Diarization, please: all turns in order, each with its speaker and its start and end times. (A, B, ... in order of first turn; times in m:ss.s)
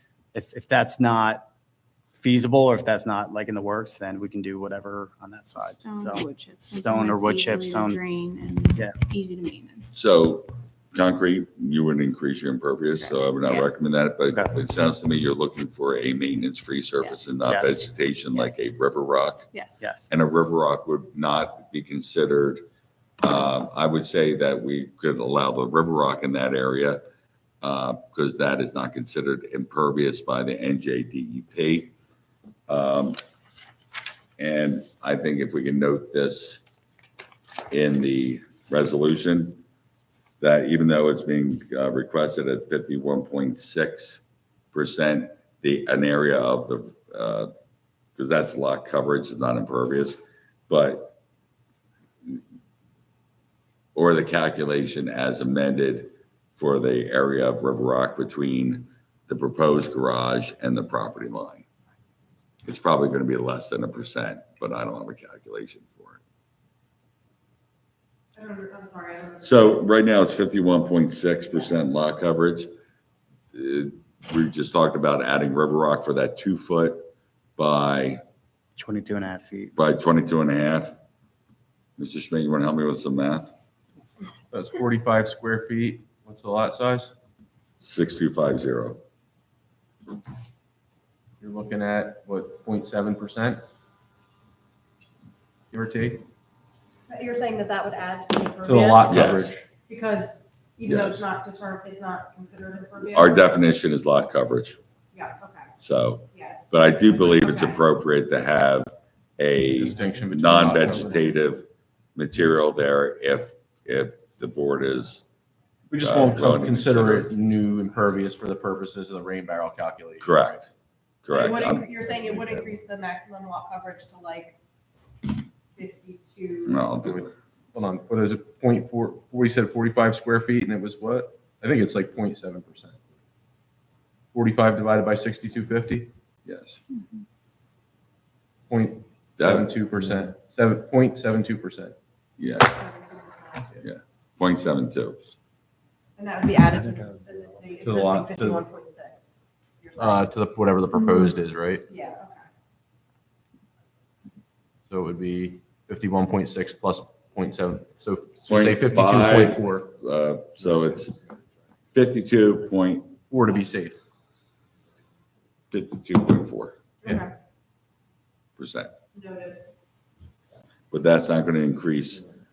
0:00.3-0:01.5 A
0:02.2-0:08.0 A
0:05.6-0:09.9 B
0:09.9-0:19.5 C
0:17.4-0:17.9 A
0:18.4-0:18.6 B
0:19.5-0:19.8 B
0:19.8-0:20.1 A
0:20.1-0:22.6 C
0:23.2-0:27.0 C
0:27.6-0:31.9 C
0:32.7-0:33.2 C
0:34.4-0:36.6 C
0:37.7-0:39.6 C
0:40.4-0:44.2 C
0:44.7-0:47.5 C
0:48.2-0:51.2 C
0:54.0-1:01.6 C
1:02.6-1:06.2 C
1:08.4-1:09.8 D
1:09.4-1:12.7 C
1:13.5-1:18.2 C
1:18.8-1:19.7 A
1:19.8-1:21.0 C
1:22.0-1:23.5 C
1:24.5-1:27.1 E
1:27.8-1:29.0 C
1:31.4-1:33.6 E
1:35.7-1:36.3 E
1:37.1-1:43.5 D
1:38.6-1:39.6 E
1:39.1-1:39.5 C
1:40.9-1:41.2 E
1:43.0-1:44.8 C
1:45.1-1:45.7 D
1:45.8-1:55.2 C
1:46.3-1:47.8 D
1:49.8-1:51.2 E
1:55.9-2:00.7 E
1:56.0-1:57.3 C
2:00.2-2:00.6 C
2:01.2-2:01.9 C
2:01.3-2:04.6 D
2:05.8-2:06.9 D
2:06.7-2:07.3 C
2:07.0-2:13.0 E
2:14.3-2:16.1 E
2:16.5-2:16.8 C
2:18.7-2:22.0 E
2:22.4-2:22.7 C
2:22.6-2:23.8 D
2:23.8-2:25.2 C
2:26.2-2:29.3 D
2:27.8-2:28.6 E
2:29.8-2:30.2 D
2:30.0-2:31.9 E
2:31.9-2:32.5 D
2:34.9-2:39.9 E
2:38.5-2:41.2 C
2:41.9-2:43.1 C
2:43.3-2:44.0 E
2:45.7-2:46.8 C
2:47.0-2:47.3 D
2:48.6-2:48.9 C
2:49.1-2:49.7 D
2:50.9-2:52.2 C